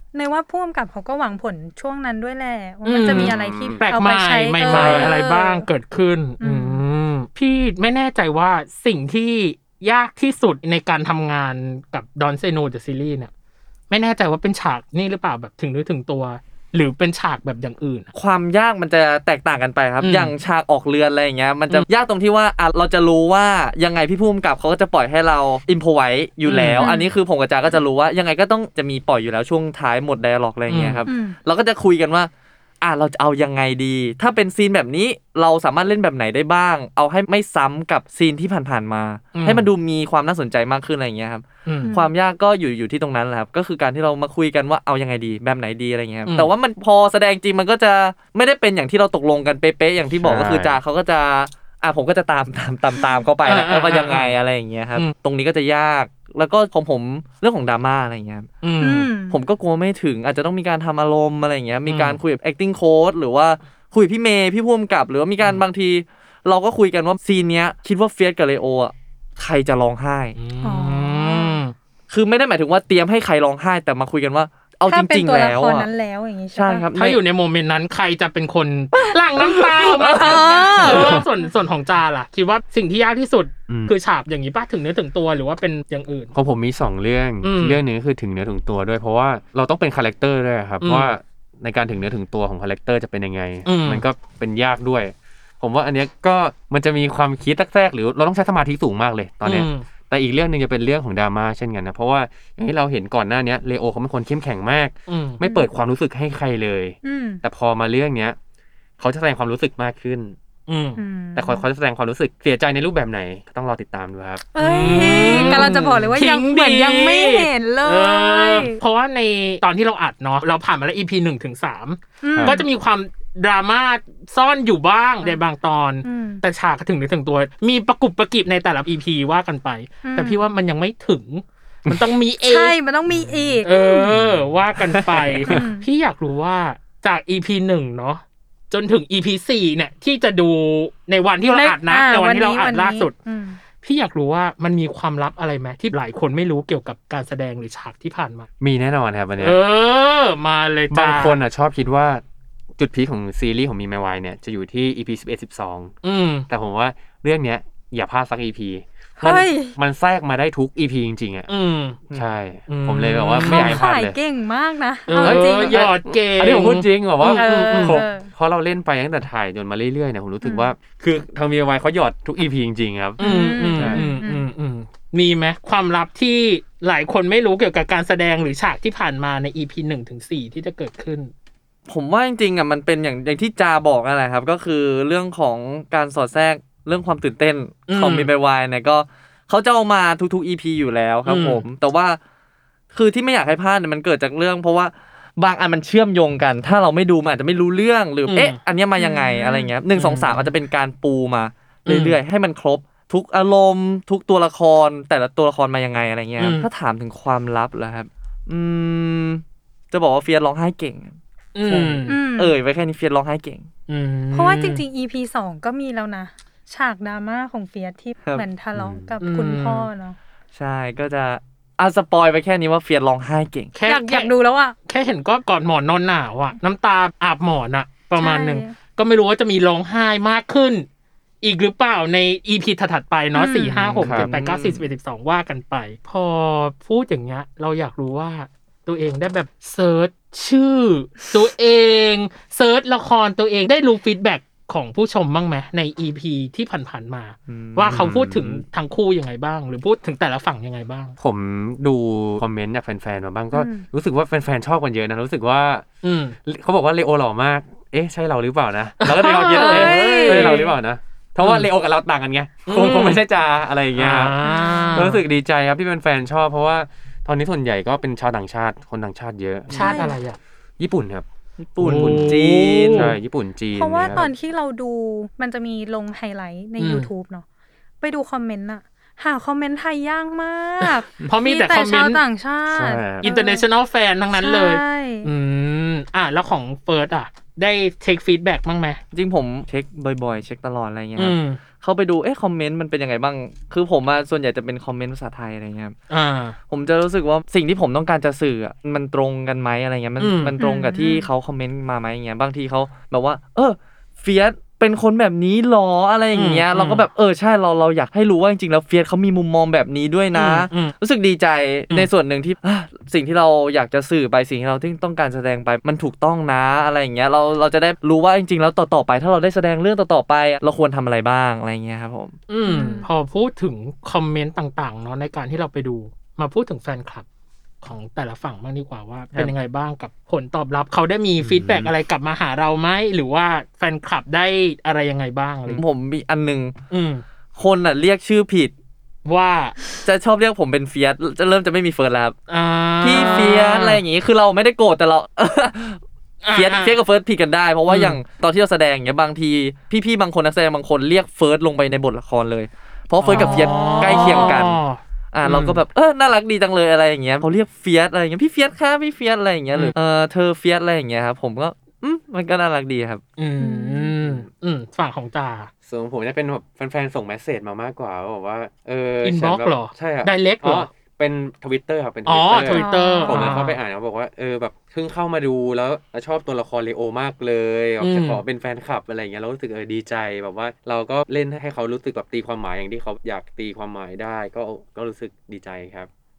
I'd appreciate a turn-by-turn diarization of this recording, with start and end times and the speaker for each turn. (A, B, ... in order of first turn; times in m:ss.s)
0:00.1-0:05.6 A
0:02.8-0:13.3 B
0:03.0-0:03.8 C
0:04.7-0:05.1 C
0:06.4-0:06.8 A
0:13.9-0:18.1 B
0:18.1-0:32.3 D
0:20.0-0:20.3 B
0:26.5-0:26.9 B
0:26.8-0:27.1 A
0:30.7-0:31.0 B
0:31.1-0:31.4 A
0:32.8-0:58.5 D
0:39.3-0:39.7 B
0:41.7-0:41.9 B
0:41.8-0:42.1 A
0:50.2-0:50.8 C
0:53.4-0:54.3 B
0:58.6-0:59.1 B
0:58.8-0:59.4 A
0:59.3-1:10.4 D
1:01.9-1:02.2 B
1:10.4-1:11.7 B
1:10.6-1:11.6 A
1:12.1-1:15.9 D
1:14.9-1:16.9 A
1:16.5-1:17.2 D
1:17.0-1:26.3 B
1:19.5-1:21.3 A
1:23.7-1:23.9 C
1:26.3-1:48.4 C
1:27.4-1:27.8 B
1:30.8-1:31.1 B
1:33.6-1:34.0 B
1:39.4-1:39.9 B
1:45.1-1:45.4 B
1:45.4-1:45.7 A
1:47.0-1:47.4 A
1:49.0-1:50.4 C
1:50.7-1:51.0 B
1:51.0-1:51.6 A
1:51.4-1:55.8 C
1:54.5-1:58.8 A
1:54.6-2:12.8 B
2:02.2-2:02.6 A
2:02.3-2:02.6 C
2:06.0-2:06.4 A
2:10.0-2:10.4 A
2:12.4-2:14.1 A
2:13.6-2:23.1 B
2:14.9-2:15.6 C
2:15.4-2:15.9 A
2:21.5-2:23.6 A
2:23.8-2:28.5 B
2:28.6-2:29.6 C
2:29.4-2:31.4 B
2:30.9-2:32.2 C
2:32.8-2:36.0 C
2:36.0-2:36.5 B
2:36.5-2:41.5 C
2:39.2-2:39.7 A
2:41.5-2:42.0 B
2:42.1-2:44.2 C
2:42.7-2:43.8 B
2:43.4-2:45.9 A
2:45.1-2:48.0 B
2:45.2-2:53.2 C
2:47.3-2:48.3 A
2:50.4-2:50.7 A
2:53.2-2:54.5 A
2:53.2-3:01.3 B
2:53.8-2:54.0 C
3:01.9-3:12.2 D
3:07.9-3:08.3 B
3:11.2-3:11.6 B
3:12.9-3:33.7 D
3:18.3-3:18.6 B
3:19.0-3:19.7 A
3:20.0-3:20.5 B
3:21.9-3:22.2 B
3:26.4-3:26.7 B
3:31.6-3:32.2 B
3:32.1-3:32.6 A
3:33.9-3:34.8 B
3:34.3-3:40.2 A
3:38.8-3:39.1 C
3:39.2-3:39.9 B
3:40.5-3:43.7 D
3:43.8-3:44.3 B
3:43.9-3:44.8 A
3:44.9-3:50.9 B
3:48.2-3:48.8 A
3:51.4-4:11.2 B
3:53.3-3:54.0 A
3:53.9-3:54.8 D
3:54.0-3:54.3 C
4:07.5-4:08.3 D
4:07.9-4:08.6 C
4:11.2-4:15.9 C
4:13.5-4:13.8 A
4:16.0-4:16.4 B
4:16.5-4:24.4 C
4:19.0-4:20.7 B
4:19.3-4:20.7 A
4:21.4-4:21.7 B
4:22.7-4:23.2 B
4:24.0-4:25.2 B
4:24.4-4:25.2 A
4:25.0-4:29.8 C
4:29.7-4:30.4 B
4:29.7-4:30.2 A
4:30.8-4:31.2 C
4:31.6-4:33.1 D
4:31.8-4:33.1 B
4:31.8-4:34.2 C
4:33.8-4:37.4 A
4:36.8-4:37.1 B
4:38.0-4:43.7 A
4:40.8-4:42.2 B
4:42.7-4:43.2 C
4:43.2-4:49.0 B
4:44.4-4:45.3 A
4:49.1-4:56.0 D
4:51.2-4:51.6 B
4:56.1-4:56.6 B
4:56.7-5:22.4 D
5:00.2-5:00.6 B
5:00.6-5:01.3 A
5:06.3-5:07.0 B
5:10.3-5:10.9 B
5:22.5-5:27.3 B
5:22.7-5:23.1 A
5:27.8-5:35.8 B
5:35.7-5:36.8 D
5:36.9-5:37.2 B
5:37.6-5:38.7 D
5:39.2-5:39.8 B
5:40.0-5:42.4 D
5:42.5-5:44.0 B
5:43.0-5:46.0 D
5:46.4-5:47.0 B
5:46.5-5:54.8 D
5:47.9-5:48.2 B
5:53.2-5:55.8 B
5:53.3-5:54.6 A
5:55.3-6:03.2 D
6:03.4-6:05.7 B
6:03.6-6:04.1 A
6:05.9-6:26.1 C
6:09.2-6:10.9 B
6:12.3-6:13.8 B
6:12.7-6:13.5 A
6:18.0-6:18.4 B